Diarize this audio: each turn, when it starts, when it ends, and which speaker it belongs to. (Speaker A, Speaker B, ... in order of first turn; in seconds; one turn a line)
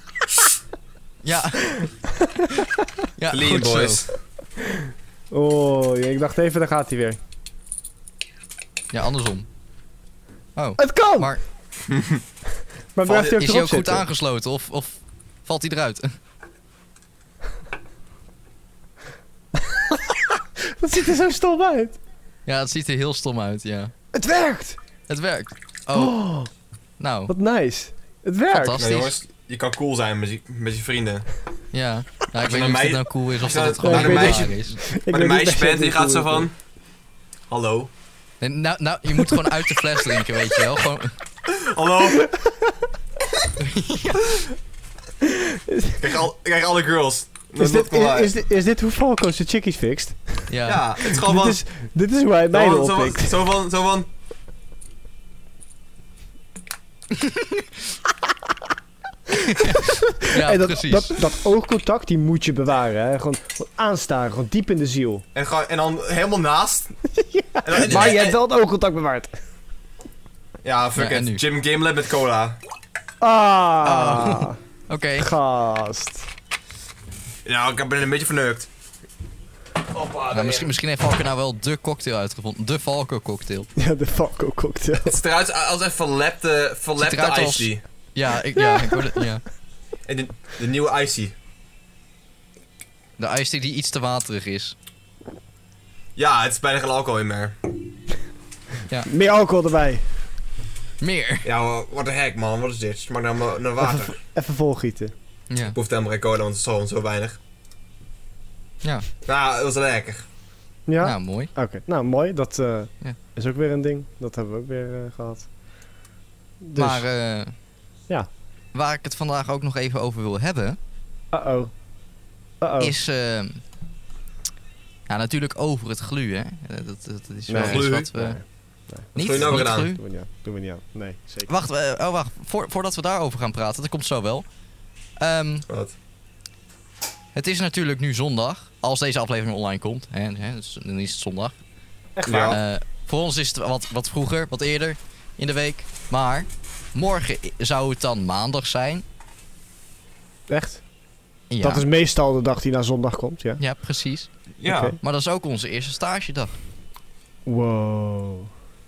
Speaker A: 1.2-1.8
Speaker B: 2.1-2.9
Speaker A: 3.2-4.0
Speaker C: 3.3-4.1
Speaker B: 4.6-7.2
Speaker A: 8.9-9.5
Speaker A: 10.6-11.4
Speaker B: 10.8-11.3
Speaker C: 11.9-12.2
Speaker B: 12.9-14.1
Speaker A: 13.1-16.1
Speaker B: 19.5-22.0
Speaker A: 22.4-23.9
Speaker B: 24.1-24.8
Speaker A: 25.1-26.1
Speaker B: 25.9-26.5
Speaker A: 27.0-27.3
Speaker B: 27.3-28.8
Speaker A: 28.5-29.2
Speaker C: 28.8-31.3
Speaker A: 31.7-34.8
Speaker C: 32.4-36.5
Speaker B: 33.8-36.5
Speaker C: 37.5-37.9
Speaker A: 38.4-41.1
Speaker C: 41.5-42.4
Speaker B: 42.1-42.7
Speaker A: 43.6-44.4
Speaker B: 45.2-46.2
Speaker C: 46.0-48.3
Speaker B: 47.6-50.5
Speaker A: 50.5-50.8
Speaker C: 50.7-51.6
Speaker B: 51.0-53.4
Speaker C: 52.5-54.1
Speaker A: 57.1-57.7
Speaker A: 59.3-61.2
Speaker B: 59.6-65.2
Speaker C: 65.3-67.0
Speaker B: 67.2-69.3
Speaker C: 67.6-68.4
Speaker A: 67.8-68.2
Speaker C: 70.6-72.6
Speaker A: 71.0-71.4
Speaker B: 73.2-74.6
Speaker A: 73.8-75.3
Speaker B: 75.2-76.3
Speaker C: 77.4-78.7
Speaker C: 79.9-80.7
Speaker A: 80.3-83.7
Speaker B: 83.8-85.1
Speaker C: 85.0-87.8
Speaker A: 87.0-89.4
Speaker B: 88.5-89.2
Speaker C: 90.0-91.3
Speaker A: 93.2-94.8
Speaker C: 96.2-97.6
Speaker B: 99.0-100.1
Speaker A: 101.0-101.5
Speaker C: 101.4-104.2
Speaker B: 103.8-105.1
Speaker A: 105.5-105.8
Speaker C: 105.7-107.4
Speaker C: 109.2-110.2
Speaker B: 110.9-115.5
Speaker A: 111.0-111.5
Speaker B: 116.6-117.0
Speaker A: 116.8-117.5
Speaker A: 118.7-120.8
Speaker B: 121.3-121.7
Speaker B: 122.6-122.9
Speaker A: 122.8-123.6
Speaker A: 125.1-128.4
Speaker B: 127.5-131.5
Speaker C: 127.6-128.1
Speaker A: 129.1-130.0
Speaker C: 129.2-129.9
Speaker A: 131.5-134.4
Speaker A: 135.2-135.7
Speaker C: 135.7-135.9
Speaker A: 137.3-141.6
Speaker B: 142.2-142.6
Speaker C: 142.2-142.6
Speaker A: 142.5-149.0
Speaker B: 150.5-150.8
Speaker A: 151.5-151.8
Speaker B: 151.6-153.6
Speaker A: 153.6-154.3
Speaker C: 154.6-155.0
Speaker B: 154.7-155.0
Speaker A: 155.0-156.6
Speaker B: 157.4-158.5